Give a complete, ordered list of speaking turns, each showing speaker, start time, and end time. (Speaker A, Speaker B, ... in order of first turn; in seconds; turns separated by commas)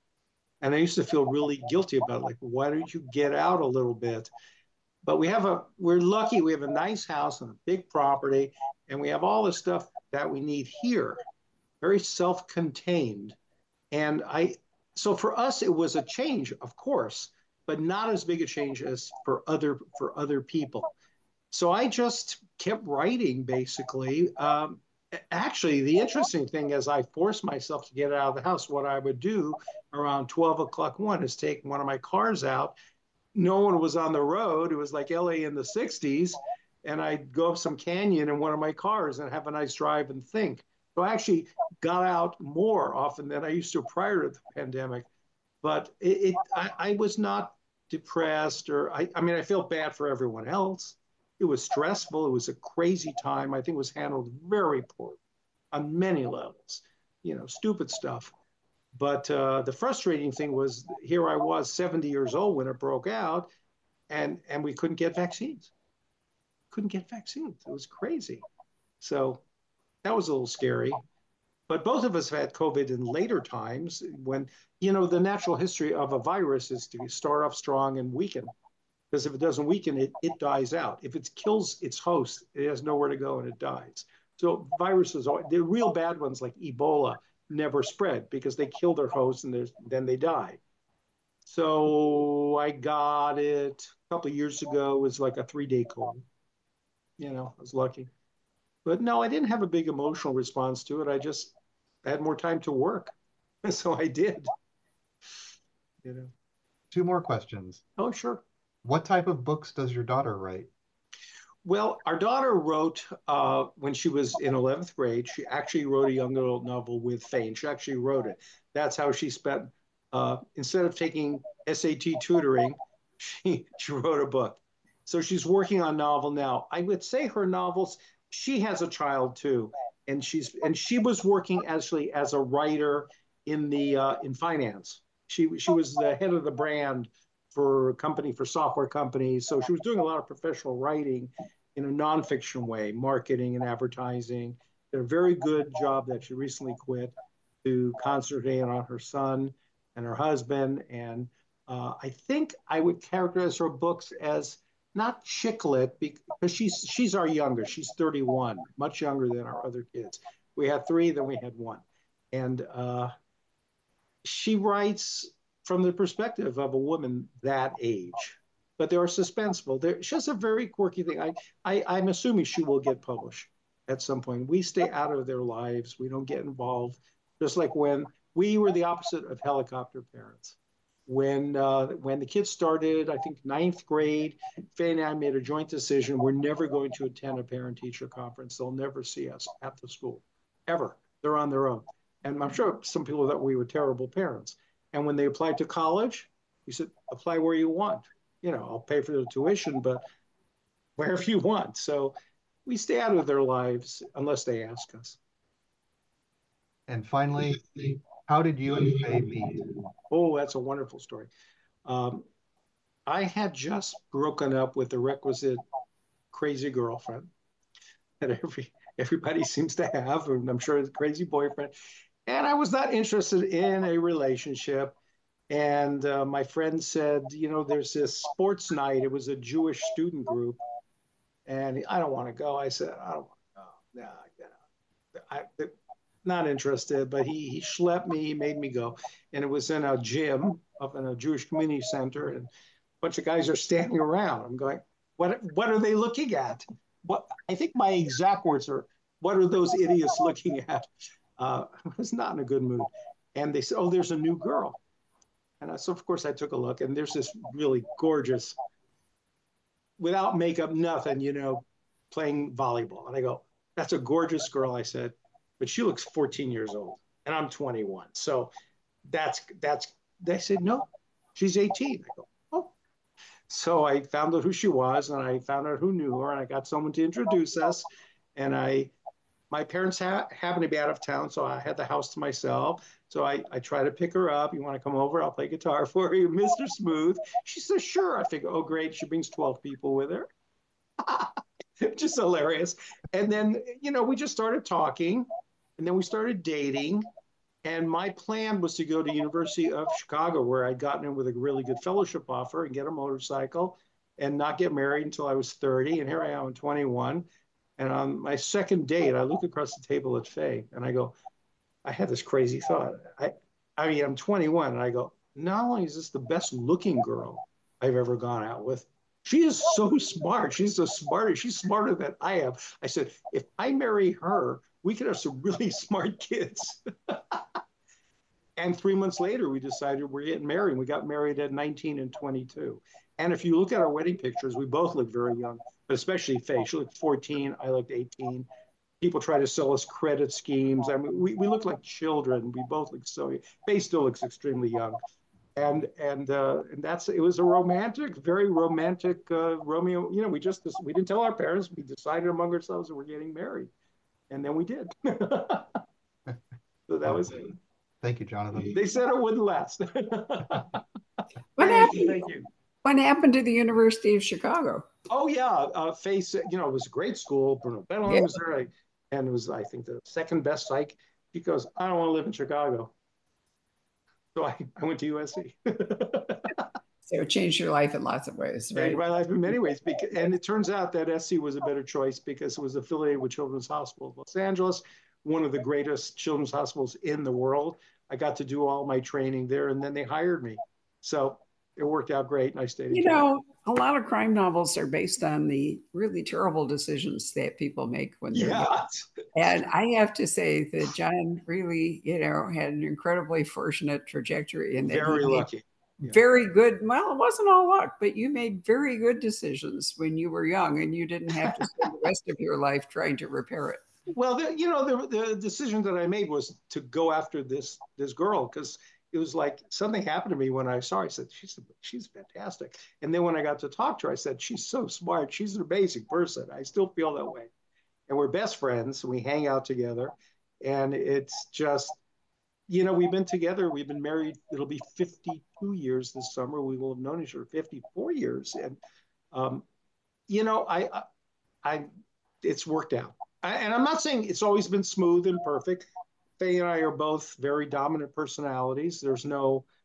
Speaker A: 0.6-4.3, Speaker A: 5.0-11.2, Speaker A: 11.8-13.4, Speaker A: 13.9-20.9, Speaker A: 21.5-32.8, Speaker A: 33.4-45.1, Speaker A: 45.6-55.2, Speaker A: 55.7-58.3, Speaker A: 59.0-63.5, Speaker A: 64.1-65.7, Speaker A: 66.7-68.5, Speaker A: 69.0-69.4, Speaker A: 70.0-71.0, Speaker A: 71.7-78.5, Speaker A: 79.1-90.6, Speaker A: 91.5-96.2, Speaker A: 97.2-98.1, Speaker A: 98.8-104.5, Speaker A: 106.0-106.3, Speaker B: 106.9-107.8, Speaker A: 108.0-108.4, Speaker B: 108.8-110.7, Speaker A: 111.7-163.1, Speaker A: 164.2-200.0, Speaker A: 201.0-202.2, Speaker A: 202.7-205.2, Speaker B: 206.9-209.8, Speaker A: 210.1-211.3, Speaker A: 211.9-212.3, Speaker A: 213.1-215.6, Speaker A: 216.3-217.3, Speaker A: 218.2-221.7, Speaker A: 222.3-225.0, Speaker A: 225.5-230.6, Speaker A: 231.5-234.6, Speaker A: 235.1-242.5, Speaker A: 243.0-254.8, Speaker A: 255.6-258.6, Speaker A: 260.0-268.5, Speaker A: 269.1-272.7, Speaker A: 273.5-278.9, Speaker A: 279.5-290.3, Speaker A: 291.0-297.1, Speaker A: 297.6-307.3, Speaker A: 307.8-311.1, Speaker A: 311.9-327.6, Speaker A: 328.6-338.5, Speaker A: 339.0-345.0, Speaker A: 345.6-353.7, Speaker A: 354.3-355.8, Speaker A: 356.9-357.5, Speaker B: 358.0-358.8, Speaker A: 358.6-360.8, Speaker C: 361.6-362.2, Speaker A: 361.6-362.5, Speaker C: 362.8-364.8, Speaker A: 365.1-372.9, Speaker C: 368.1-368.4, Speaker A: 374.4-376.6, Speaker C: 377.0-379.0, Speaker A: 378.8-393.3, Speaker C: 392.9-398.7, Speaker A: 398.3-399.1, Speaker C: 399.4-405.5, Speaker A: 404.9-406.2, Speaker C: 406.1-413.8, Speaker A: 411.4-411.9, Speaker A: 414.1-427.5, Speaker A: 428.1-432.0, Speaker A: 432.7-439.6, Speaker A: 440.3-441.1, Speaker A: 441.6-441.9, Speaker A: 442.4-445.9, Speaker A: 446.4-449.7